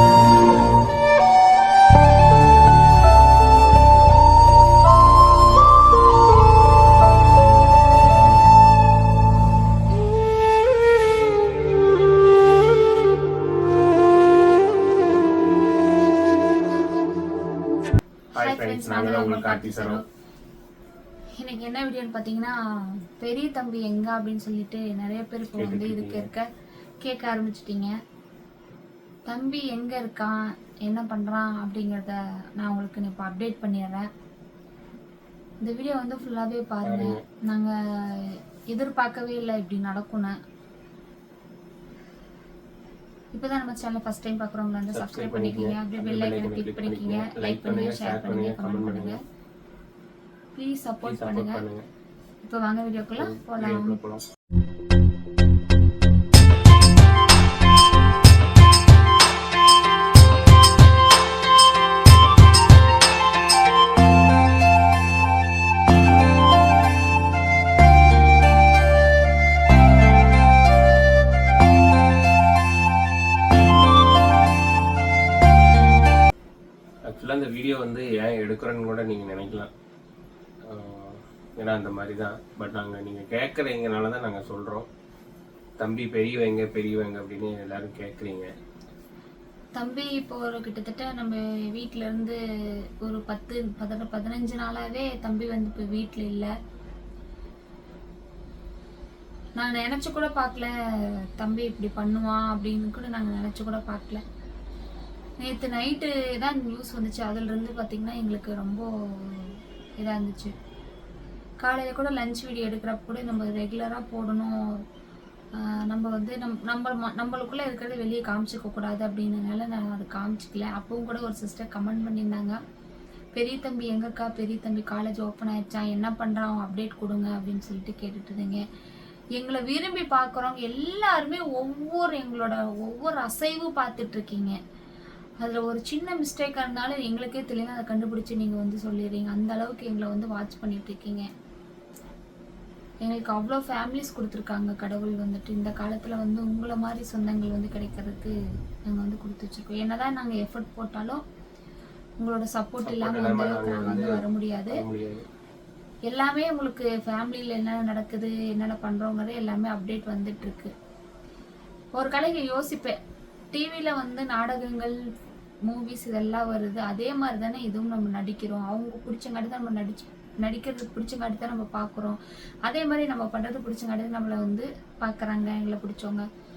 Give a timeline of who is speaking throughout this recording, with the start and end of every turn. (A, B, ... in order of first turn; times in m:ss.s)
0:18.3-0:20.0 A
0:18.4-0:20.0 B
0:21.4-0:26.5 B
0:25.6-0:26.3 A
0:27.0-0:27.9 B
0:29.3-0:30.3 B
0:30.8-0:34.1 B
0:35.6-0:40.3 B
0:36.8-0:37.2 A
0:43.3-0:49.2 B
0:44.9-0:49.2 A
0:50.5-0:51.6 B
0:51.0-0:51.8 A
0:52.4-0:54.0 B
0:53.2-0:54.2 A
1:17.1-1:19.7 A
1:20.6-1:24.9 A
1:25.8-1:28.5 A
1:29.8-1:32.4 B
1:33.0-1:36.5 B
1:39.6-1:44.2 B
1:45.4-1:50.5 B
1:51.6-1:54.8 B
1:55.6-2:02.6 B
2:03.3-2:08.6 B
2:09.4-2:14.6 B
2:15.4-2:21.3 B
2:23.0-2:31.2 B
2:32.2-2:34.8 B
2:32.8-2:35.2 A
2:36.1-2:40.7 B
2:41.9-2:43.0 B
2:43.5-2:45.0 B
2:45.6-2:56.2 B